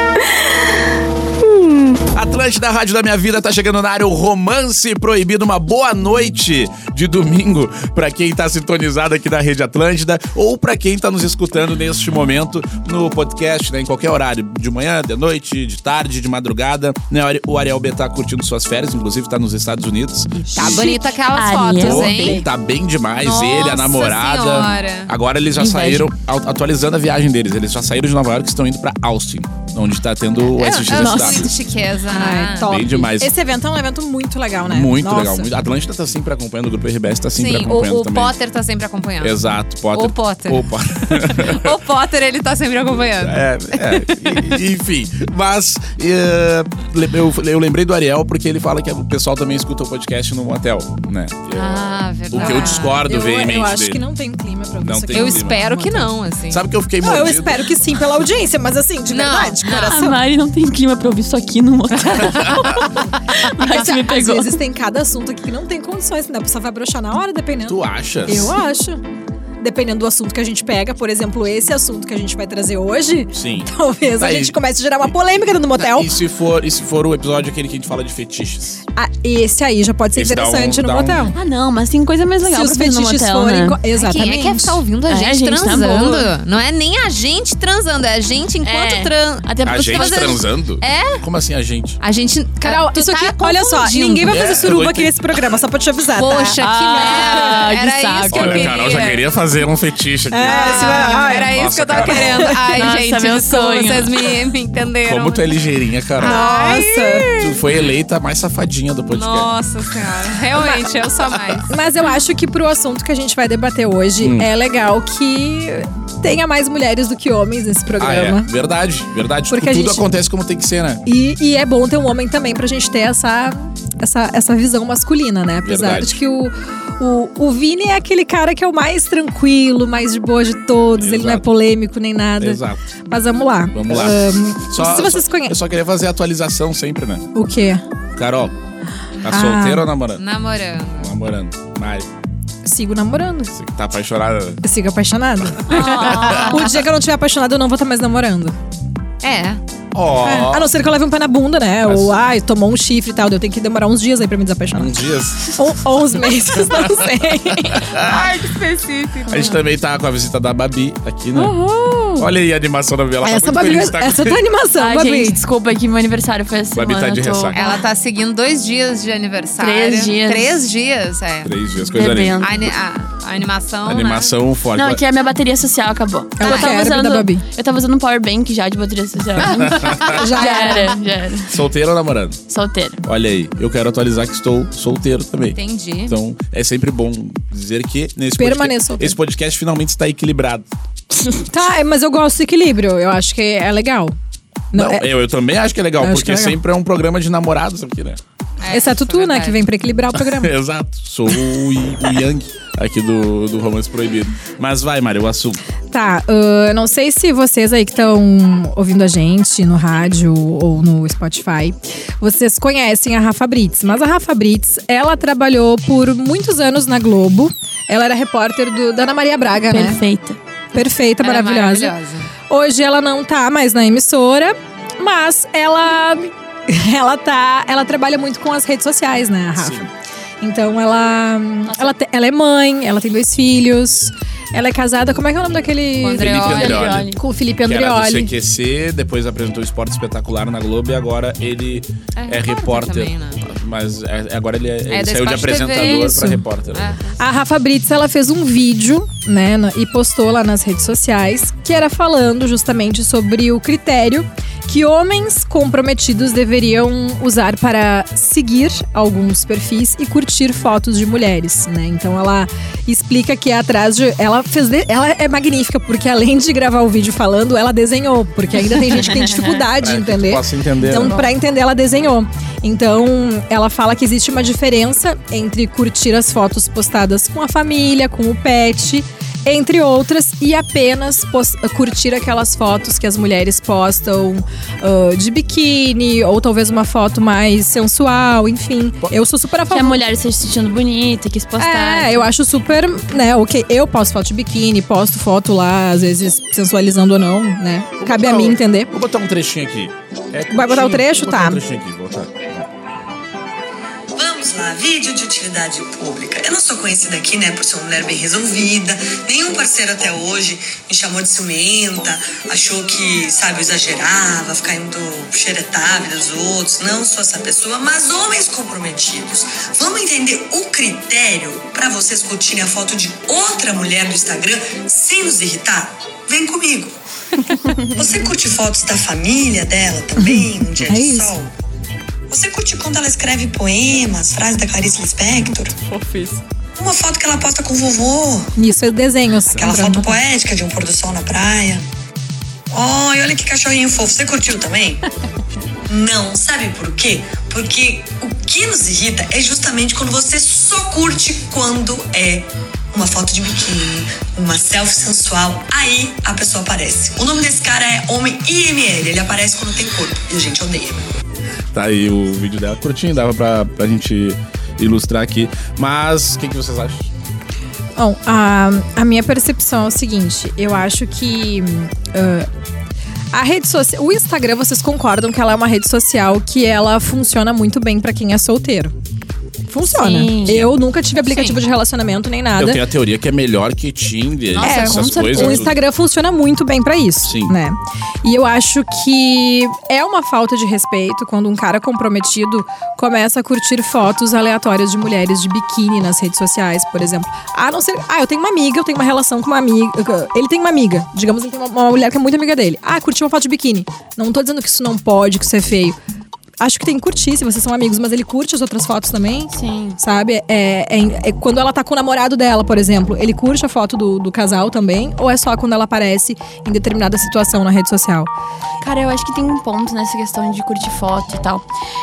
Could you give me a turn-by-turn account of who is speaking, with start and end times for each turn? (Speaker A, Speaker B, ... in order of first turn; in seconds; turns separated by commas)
Speaker A: 2.1-21.0, Speaker B: 20.4-22.4, Speaker C: 20.6-22.4, Speaker A: 21.8-31.5, Speaker B: 23.2-25.1, Speaker C: 25.6-26.1, Speaker B: 30.4-32.9, Speaker C: 30.9-31.4, Speaker D: 32.1-35.5, Speaker A: 32.6-33.3, Speaker A: 34.6-38.3, Speaker B: 37.3-39.4, Speaker A: 39.2-41.8, Speaker B: 39.9-44.4, Speaker A: 43.2-54.0, Speaker B: 51.5-53.0, Speaker D: 52.3-56.1, Speaker A: 54.8-55.6, Speaker B: 55.1-56.6, Speaker A: 56.5-57.7, Speaker D: 57.0-60.2, Speaker B: 59.1-60.0, Speaker C: 59.7-64.6, Speaker D: 61.9-69.0, Speaker A: 62.3-62.7, Speaker A: 67.7-68.6, Speaker D: 69.6-76.1, Speaker A: 73.3-74.5, Speaker A: 75.8-78.8, Speaker D: 78.9-81.3, Speaker A: 80.1-81.3, Speaker C: 81.3-83.8, Speaker D: 82.4-84.8, Speaker B: 83.9-91.2, Speaker C: 85.1-86.3, Speaker C: 88.6-90.4, Speaker A: 89.6-92.0, Speaker B: 92.0-94.4, Speaker D: 92.6-97.6, Speaker A: 94.2-95.1, Speaker B: 96.2-99.2, Speaker C: 96.6-98.8, Speaker A: 98.3-102.5, Speaker D: 100.3-102.7, Speaker B: 100.5-105.5, Speaker C: 102.7-104.3, Speaker A: 105.1-106.4, Speaker D: 106.2-107.3, Speaker B: 106.2-107.6, Speaker A: 107.4-109.5, Speaker B: 109.1-111.7, Speaker D: 111.7-118.5, Speaker A: 114.2-114.5, Speaker A: 118.0-121.0, Speaker D: 119.5-120.0, Speaker D: 121.0-135.6, Speaker A: 125.6-126.2, Speaker A: 131.0-131.5, Speaker A: 132.4-132.8, Speaker A: 133.7-137.3, Speaker D: 137.3-137.8, Speaker A: 138.1-138.5, Speaker A: 139.2-140.2, Speaker D: 139.3-139.9, Speaker B: 140.2-141.1, Speaker A: 141.0-142.1, Speaker D: 142.6-143.5, Speaker A: 143.5-144.6, Speaker D: 144.6-148.6, Speaker A: 145.4-146.6, Speaker C: 145.7-146.6, Speaker B: 145.8-146.4, Speaker B: 149.2-149.6, Speaker A: 149.9-150.7, Speaker D: 150.2-157.9, Speaker A: 151.8-152.2, Speaker A: 154.7-155.8, Speaker A: 156.5-158.4, Speaker B: 158.0-159.6, Speaker A: 159.3-161.6, Speaker D: 161.3-162.3, Speaker A: 162.2-164.4, Speaker D: 163.2-165.4, Speaker C: 164.8-167.8, Speaker A: 166.7-167.6, Speaker B: 167.5-171.5, Speaker C: 169.6-170.5, Speaker A: 171.4-172.4, Speaker C: 171.9-172.6, Speaker B: 172.4-174.3, Speaker A: 173.8-175.0, Speaker C: 174.8-181.5, Speaker D: 176.4-177.4, Speaker B: 176.4-176.9, Speaker A: 179.5-180.2, Speaker B: 179.7-180.2, Speaker D: 180.1-180.9, Speaker A: 181.5-182.4, Speaker C: 182.5-183.0, Speaker A: 183.0-190.7, Speaker B: 185.5-186.1, Speaker D: 188.4-189.1, Speaker D: 191.5-194.1, Speaker D: 194.7-195.1, Speaker A: 194.7-198.2, Speaker D: 196.0-196.6, Speaker B: 198.6-199.7, Speaker D: 198.7-200.5, Speaker A: 200.2-205.6, Speaker D: 205.9-220.0, Speaker C: 219.6-220.4, Speaker D: 220.7-221.9, Speaker B: 221.2-222.3, Speaker D: 222.5-229.9, Speaker A: 229.6-229.9, Speaker D: 230.4-238.3, Speaker C: 231.7-231.9, Speaker B: 236.0-236.9, Speaker A: 236.1-237.1, Speaker C: 236.3-237.2, Speaker A: 237.7-246.9, Speaker B: 242.2-243.4, Speaker B: 244.9-246.2, Speaker D: 245.7-246.4, Speaker B: 246.7-247.2, Speaker D: 247.2-290.0, Speaker C: 268.9-269.6, Speaker A: 269.8-271.2, Speaker C: 271.0-271.3, Speaker C: 289.7-292.3, Speaker D: 291.6-298.9, Speaker A: 298.0-302.7, Speaker D: 300.5-301.6, Speaker E: 304.1-327.0, Speaker E: 327.6-331.5, Speaker D: 330.2-331.4, Speaker E: 332.3-335.8, Speaker C: 335.9-336.4, Speaker E: 336.8-338.5, Speaker D: 338.6-340.2, Speaker E: 339.6-341.8, Speaker E: 342.7-345.0, Speaker E: 345.9-361.1, Speaker A: 361.7-367.1, Speaker D: 368.0-372.5, Speaker D: 373.3-378.9, Speaker D: 379.7-382.8, Speaker C: 379.8-380.7, Speaker A: 380.5-380.8, Speaker B: 381.2-381.6, Speaker A: 382.6-385.8, Speaker C: 384.5-385.7, Speaker D: 384.6-406.0, Speaker A: 387.2-387.6, Speaker D: 406.6-418.3, Speaker C: 409.5-410.0, Speaker C: 418.8-421.6